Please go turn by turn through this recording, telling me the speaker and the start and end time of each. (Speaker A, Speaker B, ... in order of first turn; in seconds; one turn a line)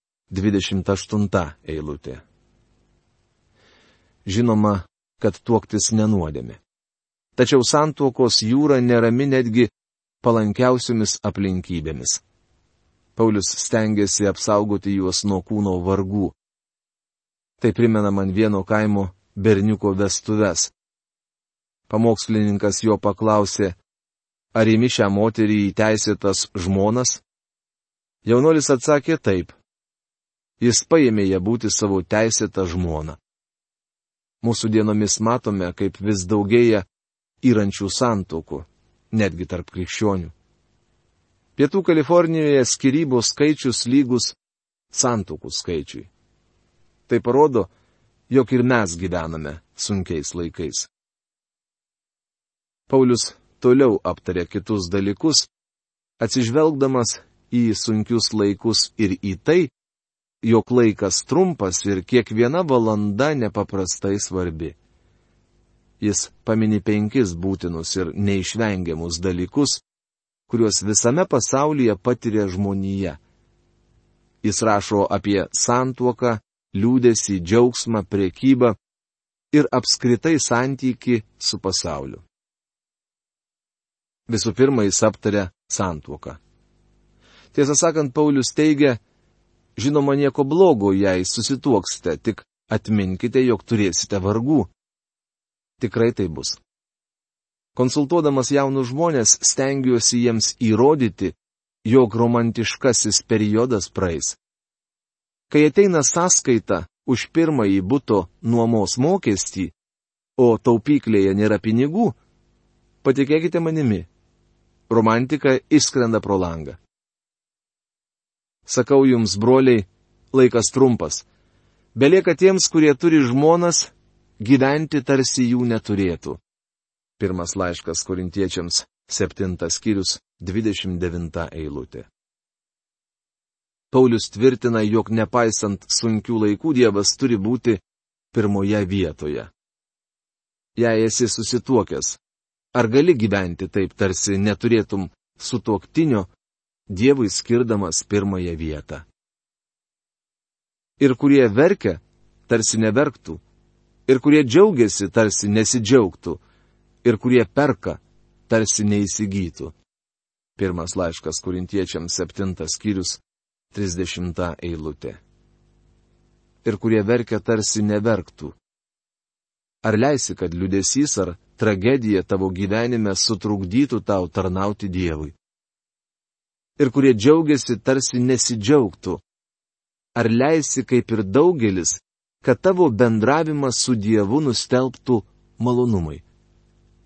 Speaker A: 0.3-2.2
Speaker A: 4.3-6.6
Speaker A: 7.4-9.7
Speaker A: 10.2-12.2
Speaker A: 13.2-16.4
Speaker A: 17.6-20.7
Speaker A: 21.9-23.8
Speaker A: 24.5-27.2
Speaker A: 28.2-29.6
Speaker A: 30.6-33.2
Speaker A: 34.4-36.9
Speaker A: 37.4-40.3
Speaker A: 41.6-44.4
Speaker A: 44.9-46.1
Speaker A: 47.1-47.7
Speaker A: 48.3-50.9
Speaker A: 52.9-55.5
Speaker A: 56.2-59.7
Speaker A: 60.4-64.8
Speaker A: 66.0-69.8
Speaker A: 70.5-73.2
Speaker A: 74.4-78.8
Speaker A: 79.5-82.2
Speaker A: 84.3-86.4
Speaker A: 87.5-89.0
Speaker A: 89.8-94.7
Speaker A: 95.8-96.6
Speaker A: 97.8-104.4
Speaker A: 105.5-109.7
Speaker A: 110.4-112.2
Speaker A: 113.0-114.1
Speaker A: 114.9-116.8
Speaker A: 118.7-121.2
Speaker A: 122.0-126.4
Speaker A: 127.2-132.1
Speaker A: 133.9-137.8
Speaker A: 138.3-139.5
Speaker A: 140.8-142.2
Speaker A: 142.8-146.3
Speaker A: 146.9-149.1
Speaker A: 151.0-153.4
Speaker A: 154.1-156.4
Speaker A: 157.0-159.8
Speaker A: 160.6-163.2
Speaker A: 163.7-165.2
Speaker A: 166.7-168.6
Speaker A: 169.8-175.4
Speaker A: 176.8-179.2
Speaker A: 180.2-186.2